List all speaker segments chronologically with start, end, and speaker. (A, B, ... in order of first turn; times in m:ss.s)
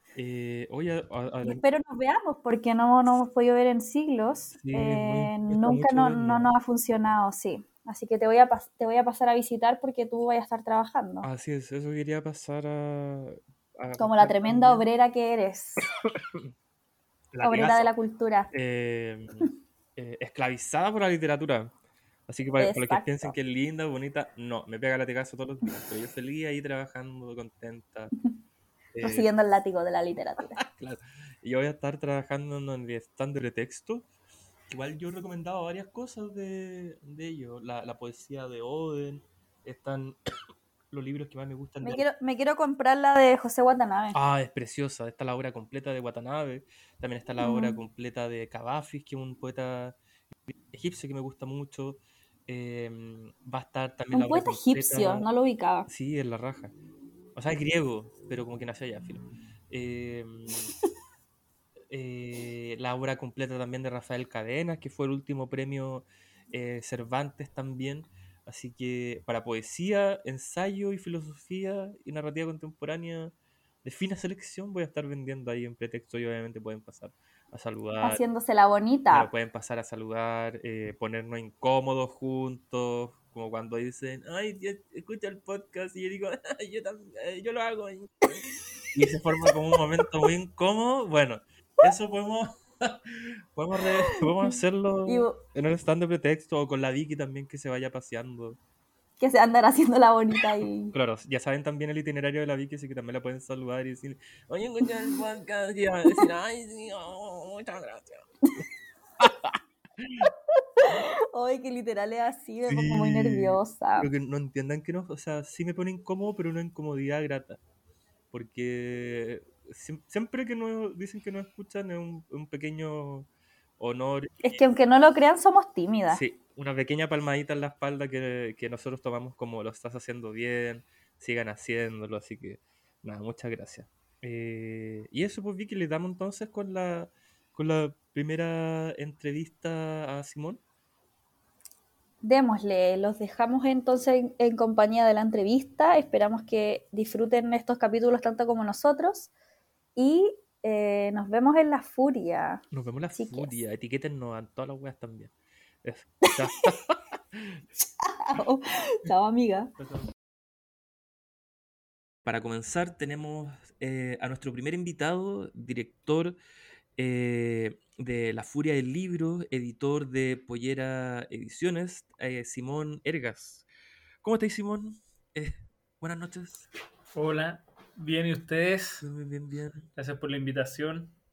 0:00.1-0:01.6 A
0:01.4-0:11.3 B
0:04.6-0:06.5 A
0:11.2-0:14.8 A
0:14.0-0:15.9 B
0:16.1-0:16.5 A
0:17.3-0:17.9 A
0:17.4-0:18.5 B
0:18.5-0:21.7 A
0:22.3-0:28.1 A
0:22.6-0:23.3 B
0:28.9-0:29.3 A
0:29.0-0:30.6 B
0:30.6-0:34.1 A
0:34.7-0:40.2 A
0:40.9-0:42.0 A
0:41.8-0:44.2 B
0:44.1-0:50.0 A
0:47.4-0:47.8 B
0:50.5-0:55.3 A
0:54.1-0:55.9 B
0:55.9-0:56.7 A
0:57.4-1:00.7 A
1:01.9-1:18.2 A
1:18.0-1:19.3 B
1:19.1-1:28.1 A
1:28.9-1:38.6 A
1:33.8-1:34.5 B
1:35.1-1:35.4 B
1:39.2-1:40.9 B
1:40.9-1:48.2 A
1:49.2-1:50.3 A
1:50.6-1:54.1 B
1:52.7-1:57.6 A
1:58.3-2:04.6 A
2:04.4-2:06.2 B
2:06.1-2:20.6 A
2:22.2-2:29.3 B
2:30.0-2:32.6 B
2:32.7-2:35.3 A
2:33.1-2:33.5 B
2:35.8-2:37.6 A
2:38.0-2:39.7 B
2:42.2-2:46.4 A
2:47.0-2:53.6 A
2:54.2-2:56.7 A
2:57.1-2:59.1 C
2:59.0-2:59.9 A
3:00.0-3:01.1 C